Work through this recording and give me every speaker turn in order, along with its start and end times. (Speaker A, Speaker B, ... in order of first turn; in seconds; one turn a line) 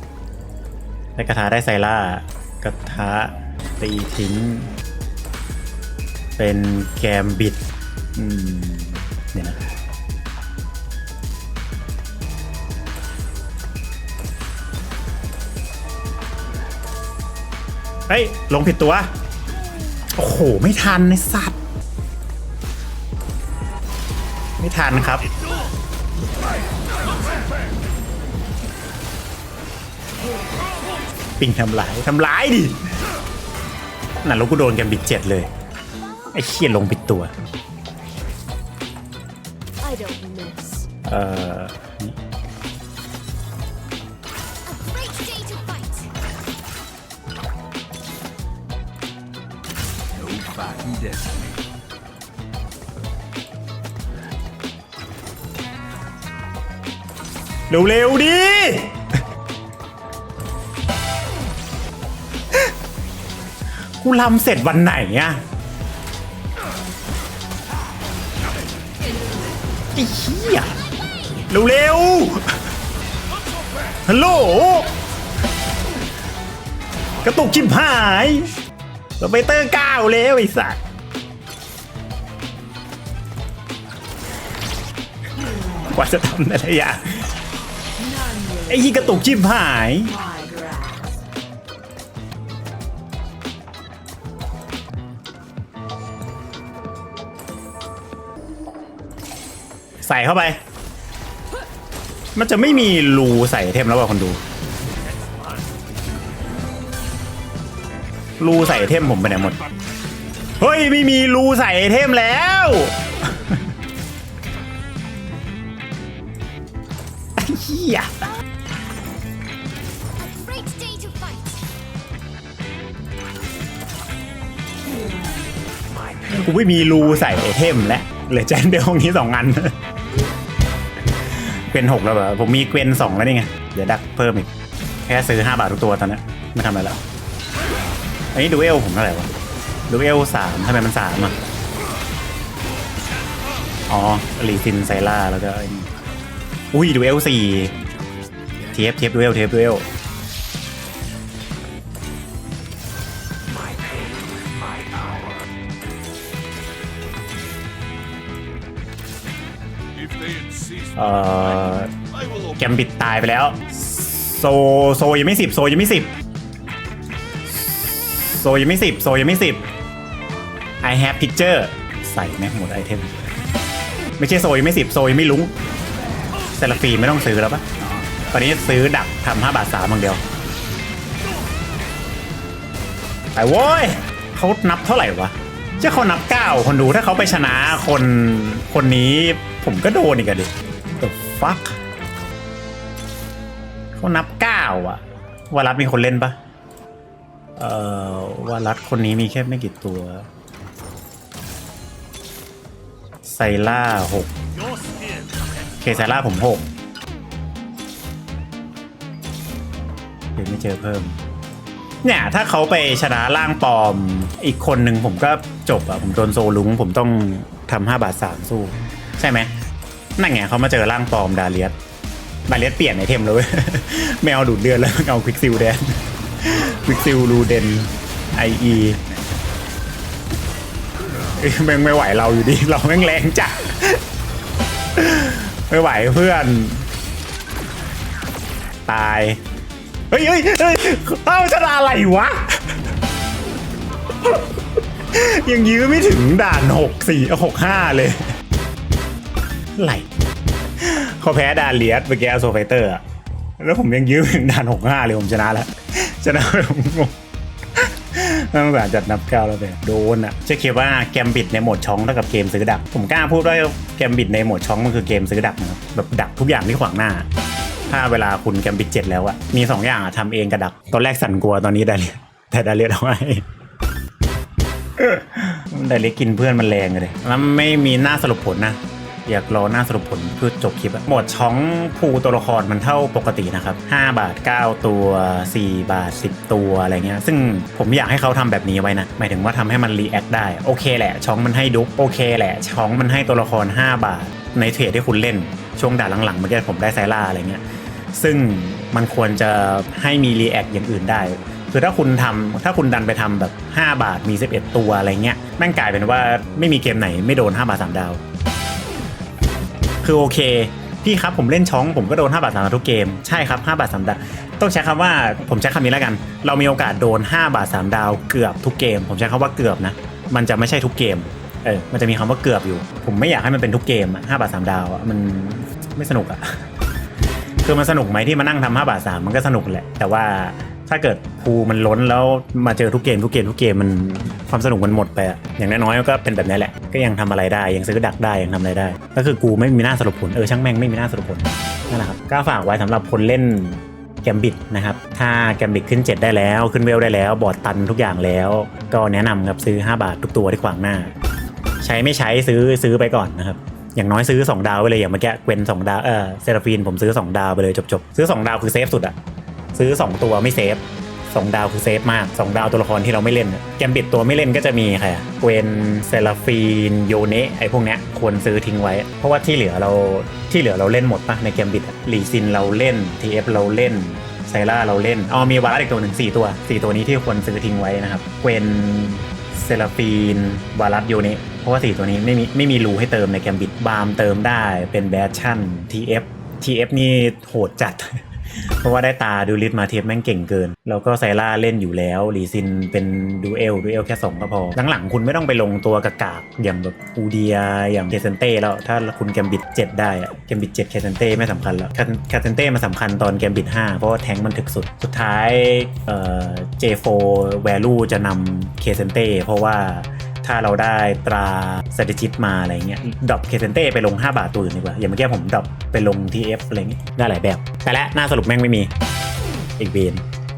Speaker A: 1.2-4.7
Speaker A: 6.4-7.6
Speaker A: 8.2-9.7
Speaker A: 18.1-19.1
Speaker A: 20.1-21.6
Speaker A: 24.6-25.3
Speaker A: 31.4-32.9
Speaker A: 34.2-35.5
Speaker A: 36.3-37.3
Speaker B: 39.8-40.9
Speaker A: 41.1-42.2
Speaker B: 44.6-46.1
Speaker C: 50.2-51.6
Speaker A: 57.7-59.0
Speaker A: 64.0-65.4
Speaker A: 70.0-70.8
Speaker A: 71.5-72.6
Speaker C: 73.6-74.0
Speaker A: 74.1-74.9
Speaker A: 77.2-78.5
Speaker A: 79.2-80.8
Speaker A: 85.9-87.3
Speaker A: 88.7-90.2
Speaker B: 90.2-91.1
Speaker A: 100.0-100.6
Speaker A: 102.4-104.4
Speaker C: 105.2-105.5
Speaker A: 108.4-109.6
Speaker A: 110.6-113.6
Speaker A: 117.4-118.2
Speaker B: 120.2-121.6
Speaker A: 126.3-129.8
Speaker A: 131.7-134.5
Speaker A: 135.1-137.0
Speaker A: 138.3-139.3
Speaker A: 139.9-141.4
Speaker A: 143.9-145.9
Speaker A: 146.7-147.8
Speaker C: 147.8-148.6
Speaker A: 148.7-149.9
Speaker C: 159.9-162.6
Speaker A: 161.0-161.9
Speaker A: 162.6-166.1
Speaker A: 167.5-169.7
Speaker A: 170.8-173.3
Speaker A: 174.2-175.5
Speaker A: 176.4-177.7
Speaker A: 178.2-180.2
Speaker A: 183.4-191.8
Speaker A: 194.0-196.4
Speaker A: 197.6-200.3
Speaker A: 203.2-204.3
Speaker C: 204.6-205.6
Speaker A: 205.8-206.7
Speaker A: 210.4-211.2
Speaker A: 212.0-219.5
Speaker A: 220.2-221.8
Speaker A: 222.5-229.0
Speaker A: 231.1-234.0
Speaker A: 234.9-236.9
Speaker A: 238.9-239.4
Speaker A: 240.1-242.8
Speaker A: 245.1-248.3
Speaker A: 249.8-250.1
Speaker A: 250.8-253.0
Speaker A: 253.6-257.1
Speaker A: 257.8-267.3
Speaker A: 267.9-273.4
Speaker A: 275.0-297.6
Speaker A: 298.1-308.2
Speaker A: 310.0-326.6
Speaker A: 327.6-351.1
Speaker A: 351.8-359.2
Speaker A: 359.8-418.9
Speaker A: 419.8-420.2